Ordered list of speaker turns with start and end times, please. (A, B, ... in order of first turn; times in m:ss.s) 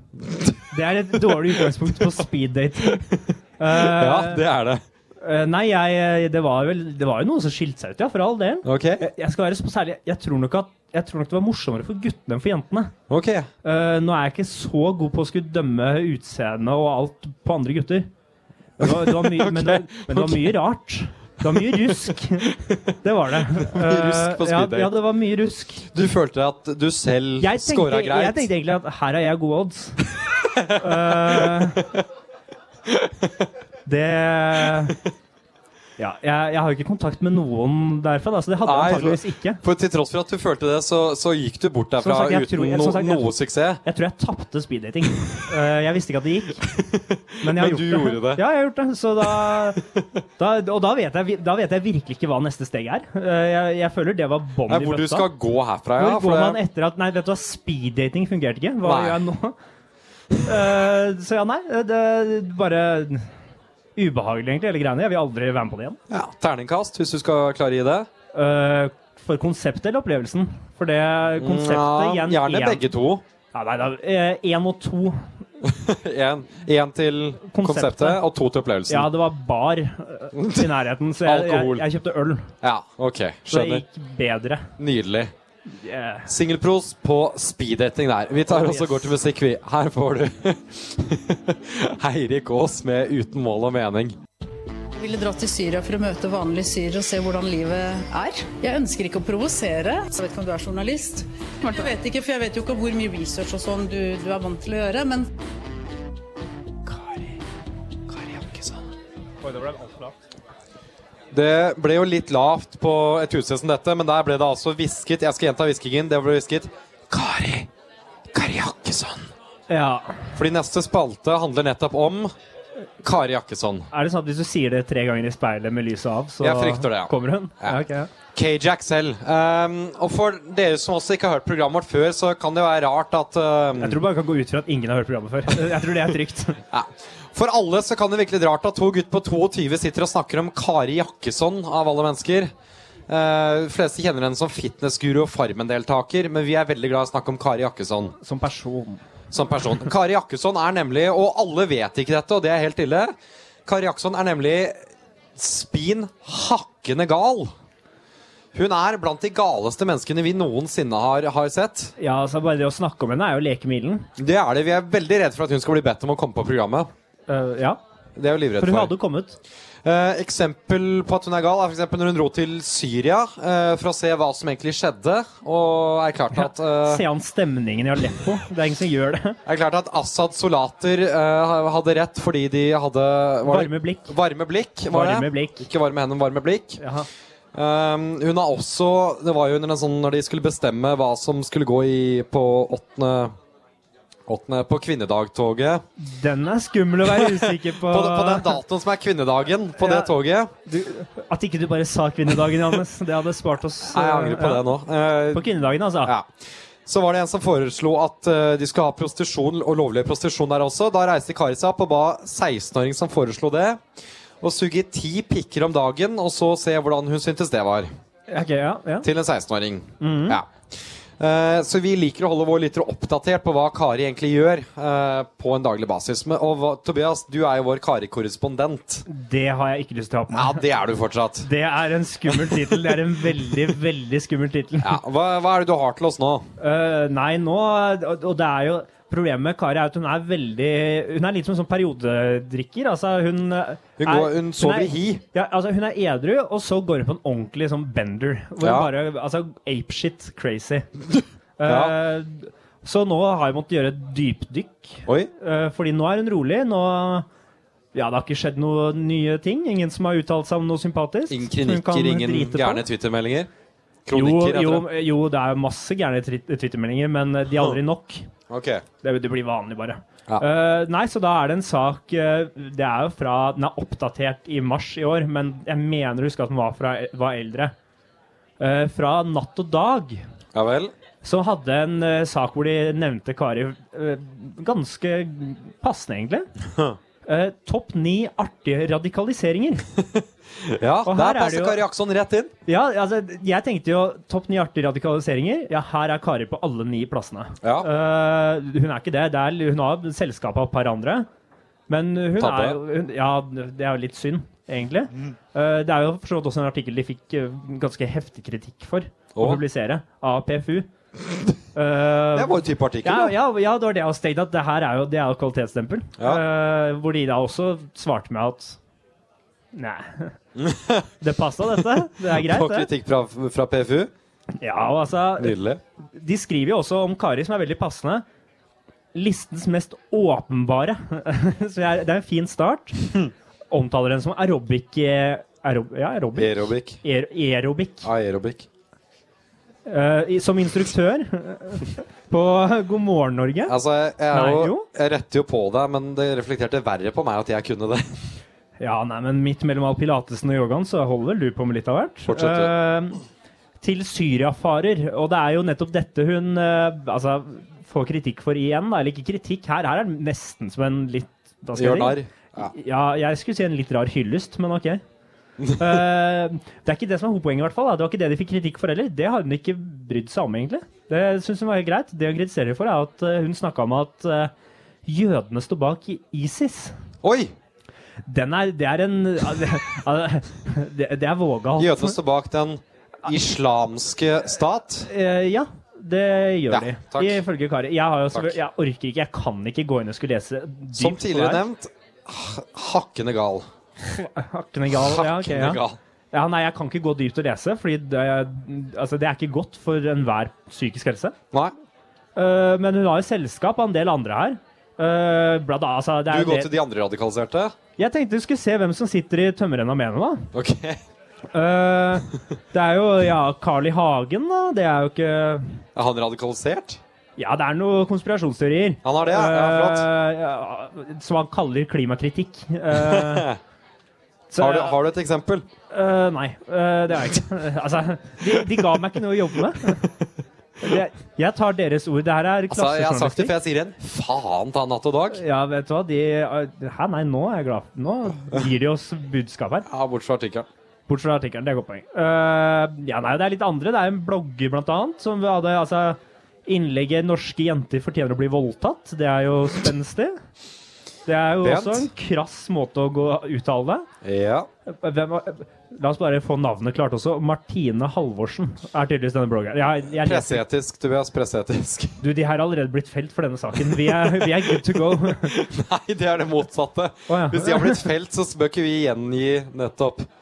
0:00.3-0:00.5 A
0:00.7-0:03.1 B
0:01.3-0:02.2 A
0:02.9-0:04.8 A
0:03.6-0:04.4 B
0:05.2-0:12.9 B
0:08.6-0:09.0 A
0:13.1-0:13.5 A
0:13.6-0:18.1 B
0:18.8-0:22.5 B
0:18.8-0:20.6 A
0:21.4-0:22.9 A
0:23.0-0:25.9 B
0:23.5-0:25.0 A
0:25.9-0:28.5 A
0:27.4-0:30.1 B
0:30.4-0:31.7 A
0:30.7-0:31.9 B
0:32.9-0:33.5 A
0:33.9-0:35.0 B
0:36.0-0:39.6 B
0:38.6-0:43.8 A
0:42.0-0:43.3 B
0:43.8-0:46.7 B
0:46.7-0:48.4 A
0:47.4-0:49.8 B
0:49.5-0:50.0 A
0:50.4-0:55.3 B
0:54.7-0:56.6 A
0:56.0-0:59.6 B
0:58.8-0:59.2 A
1:00.4-1:03.3 B
1:04.0-1:06.0 B
1:06.1-1:08.1 A
1:08.3-1:12.9 B
1:11.4-1:13.2 A
1:13.5-1:15.3 B
1:15.6-1:19.1 A
1:17.4-1:18.2 B
1:18.9-1:22.5 B
1:20.3-1:20.7 A
1:21.2-1:21.9 A
1:22.6-1:23.8 A
1:23.5-1:24.7 B
1:24.8-1:25.3 A
1:25.7-1:26.3 B
1:26.3-1:34.2 A
1:28.5-1:29.1 B
1:35.0-1:45.3 C
1:46.9-1:47.3 B
1:48.1-1:48.8 A
1:49.4-1:50.2 B
1:51.3-1:57.7 A
1:58.3-1:59.3 A
1:59.7-2:00.3 B
2:00.4-2:02.3 A
2:03.0-2:03.9 A
2:03.9-2:08.1 B
2:06.4-2:07.8 A
2:08.3-2:14.0 A
2:13.8-2:16.6 B
2:16.7-2:22.5 A
2:23.1-2:28.2 A
2:28.2-2:29.0 B
2:29.3-2:33.1 A
2:33.7-2:37.5 A
2:38.5-2:41.9 A
2:42.0-2:44.1 B
2:44.2-2:46.9 A
2:47.3-2:47.8 B
2:48.2-2:48.9 A
2:48.6-2:49.4 B
2:49.8-2:57.0 A
2:56.3-2:59.4 B
2:59.5-3:06.8 A
3:03.4-3:04.1 B
3:04.9-3:05.7 B
3:06.8-3:07.1 B
3:07.5-3:13.4 A
3:14.2-3:15.8 A
3:16.0-3:18.6 B
3:17.1-3:20.5 A
3:19.8-3:20.1 B
3:20.6-3:24.7 B
3:23.8-3:33.8 A
3:25.3-3:26.1 B
3:34.4-3:37.9 A
3:38.3-3:39.1 B
3:39.0-3:49.1 A
3:40.0-3:40.4 B
3:49.1-3:50.6 B
3:50.3-3:51.5 A
3:51.4-3:55.0 B
3:52.3-3:53.1 A
3:54.8-3:56.5 A
3:56.6-4:10.9 B
4:04.0-4:05.2 A
4:08.6-4:08.9 A
4:11.1-4:12.0 A
4:11.6-4:17.2 B
4:17.9-4:22.8 B
4:21.3-4:23.5 A
4:24.0-4:24.9 A
4:24.1-4:28.3 B
4:28.5-4:28.8 A
4:29.0-4:37.7 B
4:38.6-4:40.2 B
4:40.5-4:40.9 A
4:41.2-4:46.5 B
4:46.6-4:47.0 A
4:47.2-4:49.8 B
4:50.0-4:52.5 A
4:51.0-4:51.8 B
4:52.7-5:01.3 B
4:57.6-4:57.9 A
5:01.9-5:10.9 B
5:02.4-5:02.8 A
5:09.4-5:09.6 A
5:11.8-5:18.8 B
5:12.3-5:13.4 A
5:19.7-5:20.4 B
5:20.6-5:21.1 A
5:21.2-5:22.9 B
5:22.2-5:24.1 A
5:24.6-5:25.5 B
5:25.4-5:25.8 A
5:26.1-5:28.2 B
5:29.1-5:33.0 B
5:33.7-5:38.1 B
5:36.4-5:37.0 A
5:38.0-5:38.7 A
5:39.9-5:43.8 B
5:43.7-5:48.1 A
5:44.3-5:44.9 B
5:48.8-5:53.2 B
5:52.3-5:52.7 A
5:53.8-6:05.0 B
6:01.8-6:02.7 A
6:05.6-6:06.0 A
6:05.8-6:14.5 B
6:15.0-6:17.0 B
6:17.2-6:17.5 A
6:18.3-6:22.2 B
6:21.8-6:25.1 A
6:25.0-6:31.6 B
6:26.7-6:27.4 A
6:28.3-6:28.6 A
6:30.9-6:33.7 A
6:34.1-6:35.8 B
6:34.9-6:36.0 A
6:36.3-6:41.4 B
6:42.4-6:46.7 B
6:46.3-6:47.8 A
6:48.0-6:50.5 B
6:50.5-6:51.0 A
6:51.5-6:55.8 B
6:56.0-6:57.0 A
6:57.4-7:03.5 B
6:59.0-7:00.1 A
7:02.9-7:03.6 A
7:04.5-7:05.0 B
7:04.6-7:05.7 A
7:05.9-7:10.0 B
7:10.0-7:10.3 A
7:10.8-7:13.5 B
7:12.7-7:15.4 A
7:15.3-7:19.9 B
7:19.9-7:20.7 A
7:21.1-7:30.4 B
7:31.2-7:34.0 B
7:31.6-7:32.1 A
7:34.2-7:34.7 A
7:34.9-7:40.6 B
7:40.1-7:42.2 A
7:42.2-7:45.5 B
7:43.8-7:50.3 A
7:47.3-7:48.1 B